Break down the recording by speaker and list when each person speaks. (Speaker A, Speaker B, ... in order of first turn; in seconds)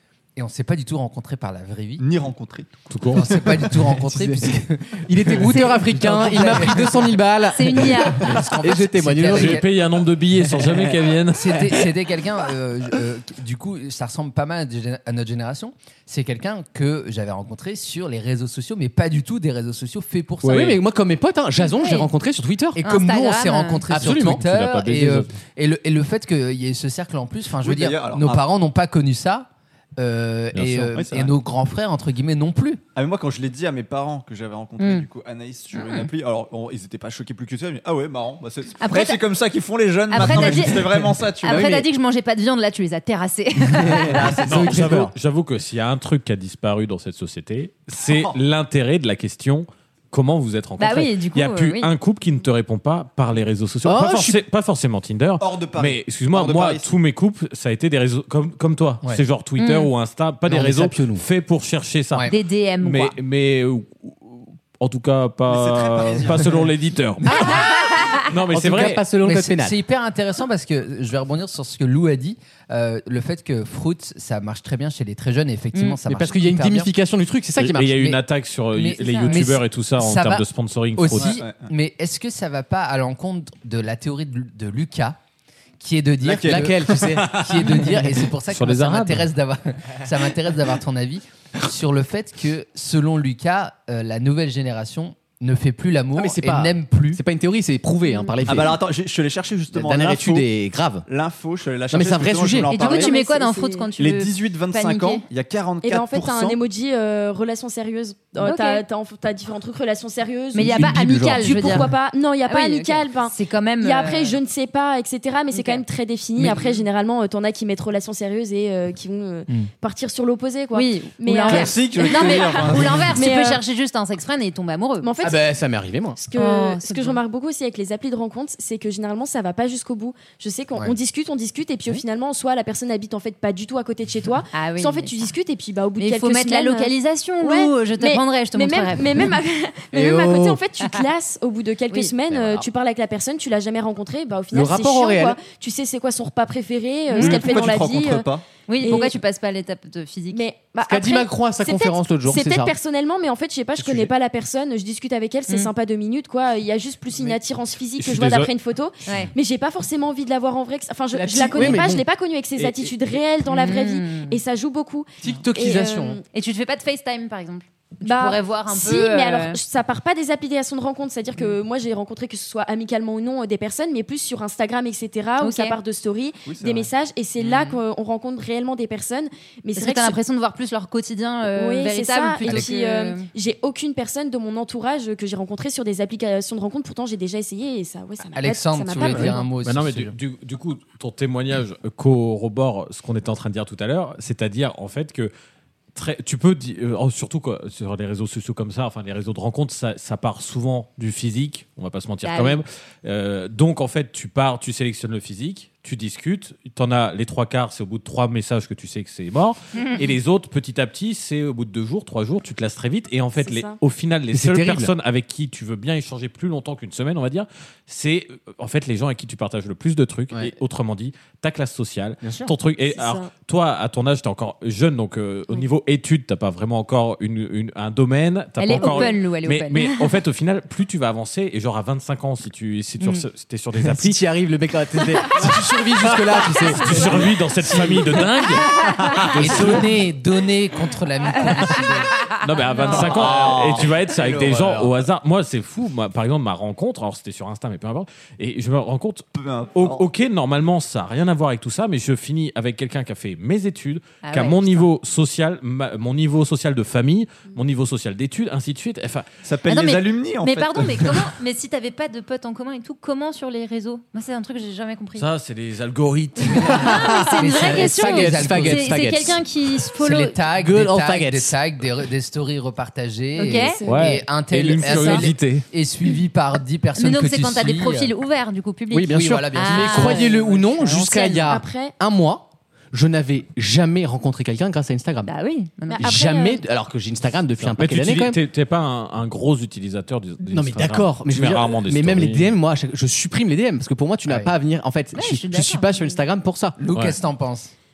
Speaker A: 0.4-2.1, 3.1-7.2, 7.8-9.7, 11.3-20.8, 22.8-32.8, 69.2-76.9, 78.7-80.5, 81.0-85.2, 85.8-97.2, 188.3-190.2, 239.4-242.1, 267.3-269.4, 269.9-278.1, 279.1-280.6, 296.8-297.7
Speaker B: 2.0-3.2, 27.6-28.4, 30.9-31.3, 33.0-41.9, 44.1-45.0, 48.0-48.4, 55.4-56.9, 65.5-66.7, 81.2-81.7, 86.3-86.7, 98.4-100.5, 101.1-103.2, 104.0-106.6, 121.5-123.2, 147.2-148.4, 153.8-154.1, 176.4-176.9, 243.0-244.7, 249.3-250.1, 259.4-261.2
Speaker C: 2.9-3.4, 9.2-11.6, 20.4-20.8, 24.0-25.3, 30.5-31.1, 40.2-40.6, 44.5-69.0, 77.6-81.3, 87.0-87.7, 88.5-89.3, 158.0-158.5, 189.0-195.3, 195.9-234.2, 235.3-239.9, 242.4-259.3, 265.2-267.0, 273.9-275.6, 287.6-292.5
Speaker D: 3.8-9.6, 10.5-11.0, 20.5-22.8, 23.9-24.4, 41.5-41.8, 43.7-45.1, 53.9-54.4, 60.5-61.2, 68.5-69.8, 76.1-78.1, 86.3-88.2, 96.2-98.8, 99.7-101.1, 101.9-102.7, 110.6-111.8, 125.2-126.2, 139.9-140.6, 144.5-145.4, 150.8-152.7, 161.1-162.1, 165.2-166.2, 214.3-214.9, 222.2-222.5, 233.8-238.3, 239.4-239.7, 244.5-244.9, 266.6-269.4, 270.6-271.5, 278.9-285.3, 286.0-288.4, 290.4-296.8
Speaker E: 7.5-8.4, 21.6-22.1, 22.8-23.9, 34.8-35.1, 35.7-36.1, 38.8-39.2, 40.1-44.2, 50.8-51.9, 59.6-59.9, 62.3-63.1, 67.3-68.2, 79.0-79.4, 102.7-105.2, 108.4-108.8, 110.5-111.9, 112.5-114.4, 115.5-115.8, 120.7-125.1, 126.4-127.2, 134.5-135.3, 136.0-139.3, 147.1-147.6, 148.7-150.4, 159.1-159.3, 163.5-164.4, 166.3-169.6, 175.4-175.8, 179.8-183.3, 202.2-202.6, 228.6-229.8, 233.0-233.2, 238.7-239.2, 242.7-243.2, 254.2-254.9, 259.7-265.3, 266.7-270.4, 273.4-273.8, 277.0-281.5, 285.3-286.1, 295.1-296.2
Speaker F: 102.8-103.9, 105.8-123.6, 125.0-125.5, 126.2-148.3, 148.8-149.2, 150.3-166.2, 168.0-180.2, 181.6-189.5, 213.4-213.8, 222.9-223.3, 228.7-229.1, 273.6-274.1, 281.5-281.9, 285.9-286.6